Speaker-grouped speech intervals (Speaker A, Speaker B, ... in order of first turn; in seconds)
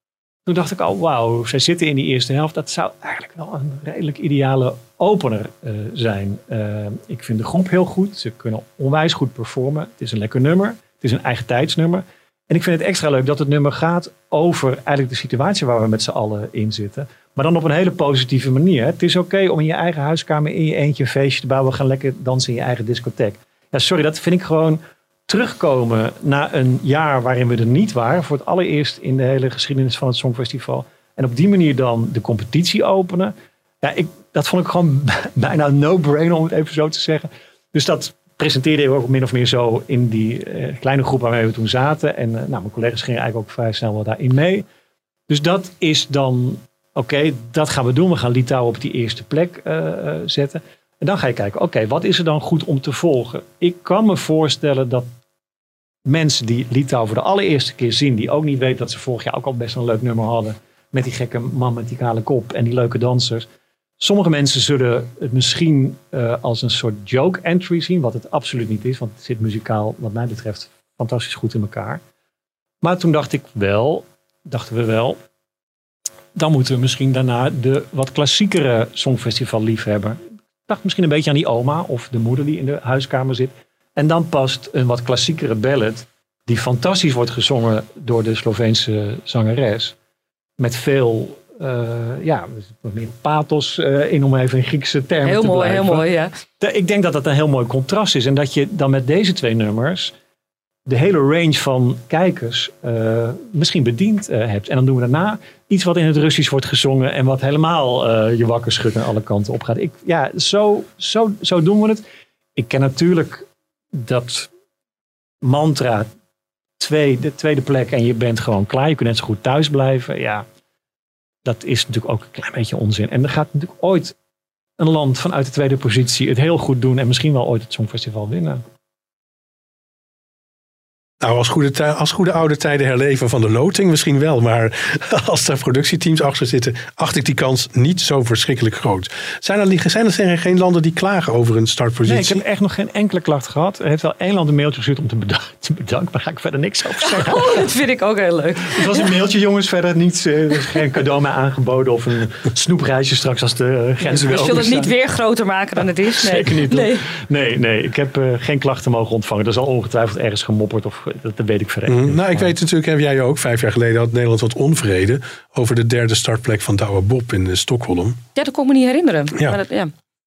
Speaker A: 0.5-44.7, 45.3-55.1, 56.1-63.5, 64.0-72.0, 72.8-75.2, 76.3-90.0, 90.6-96.0, 96.6-100.1, 100.9-112.0, 112.6-114.5, 115.4-116.1, 116.8-120.5, 121.5-124.1, 124.8-128.6, 142.1-147.6, 148.7-154.9, 155.8-162.5
Speaker B: 95.2-96.3, 147.1-149.1, 154.0-157.1, 168.4-169.9
Speaker C: 131.2-142.4, 161.9-168.2